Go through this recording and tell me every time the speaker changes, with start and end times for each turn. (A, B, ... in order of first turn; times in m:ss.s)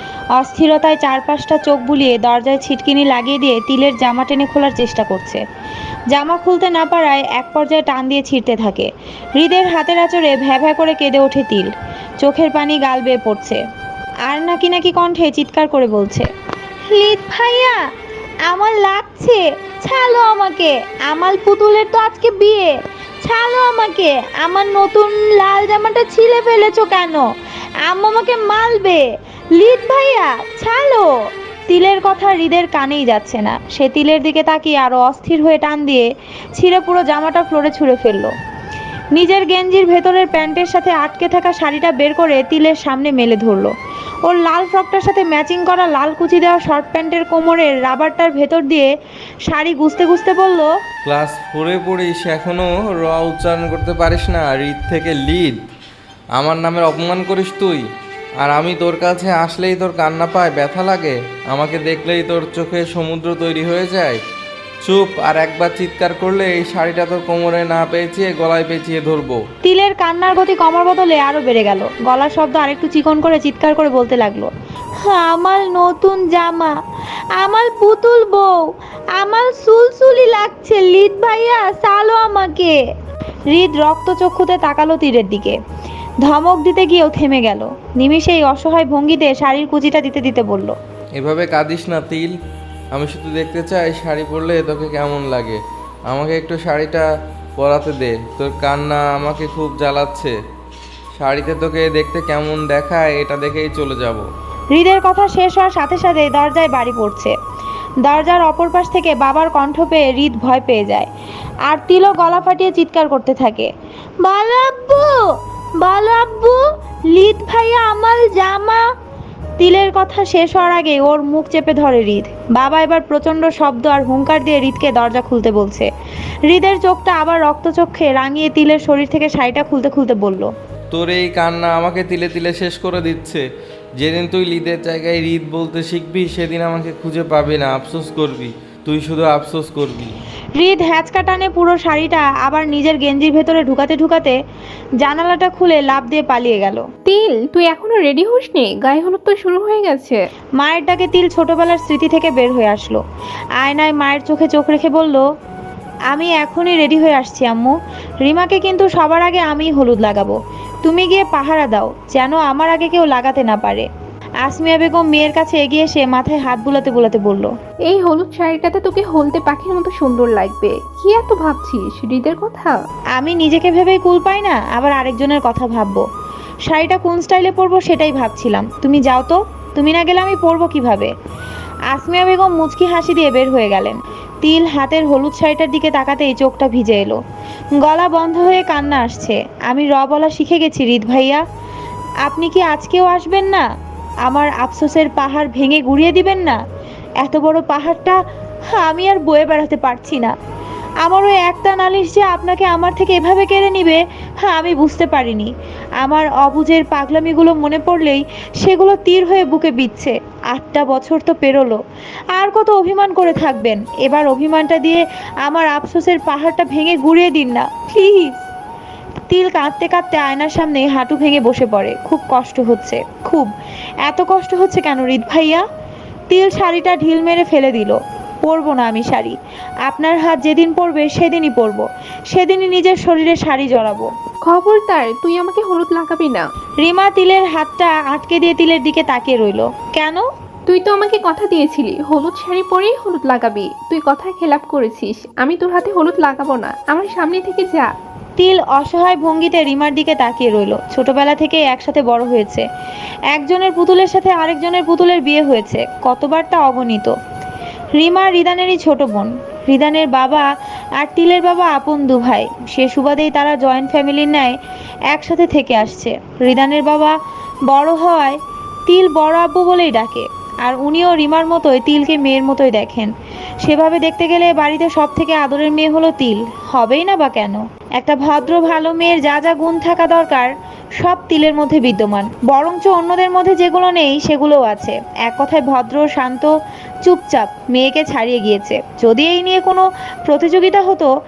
0:00.4-0:05.4 A
0:06.1-0:11.7 A
0:12.2-0:13.6 A
0:14.3-0:16.3 A
0:16.9-0:17.8 A
0:18.4-0:22.7 A
0:23.2-0:27.2 A
0:27.8-0:29.0 A
0:29.5-0:31.1 A
0:31.7-0:38.3 A
0:39.1-0:43.7 A
0:44.2-0:48.9 A
0:49.5-0:50.7 A
0:51.0-0:55.6 B
0:56.4-0:57.8 B
0:58.4-1:04.2 B
1:04.8-1:09.4 B
1:09.6-1:14.5 A
1:15.0-1:16.7 A
1:17.4-1:18.5 A
1:19.2-1:22.7 A
1:23.5-1:25.6 A
1:26.2-1:30.8 A
1:31.2-1:32.3 B
1:32.9-1:37.1 B
1:37.6-1:40.3 B
1:41.2-1:44.2 B
1:44.7-1:47.3 A
1:48.0-1:51.1 A
1:51.7-1:53.7 A
1:54.2-1:55.2 A
1:55.8-1:58.9 A
1:59.6-2:05.9 A
2:06.5-2:10.5 A
2:10.9-2:13.4 B
2:14.0-2:20.2 B
2:20.6-2:24.4 A
2:25.0-2:26.8 A
2:27.1-2:30.2 C
2:30.6-2:33.0 A
2:33.6-2:35.2 A
2:36.1-2:43.9 A
2:44.4-2:47.5 A
2:47.9-2:52.8 C
2:53.2-2:56.0 A
2:56.7-3:01.1 A
3:01.9-3:07.2 A
3:07.8-3:11.4 A
3:12.2-3:13.6 A
3:14.2-3:16.6 A
3:17.2-3:18.2 A
3:18.7-3:20.3 A
3:21.0-3:31.8 A
3:32.3-3:38.4 A
3:39.3-3:43.5 A
3:44.0-3:45.6 A
3:46.3-3:54.1 A
3:54.4-3:56.4 C
3:56.8-4:00.2 A
4:00.7-4:07.9 C
4:08.4-4:12.6 A
4:13.3-4:17.1 A
4:18.0-4:20.4 A
4:21.0-4:24.6 A
4:25.1-4:27.1 A
4:27.7-4:33.1 A
4:33.6-4:46.5 A
4:47.0-4:51.1 A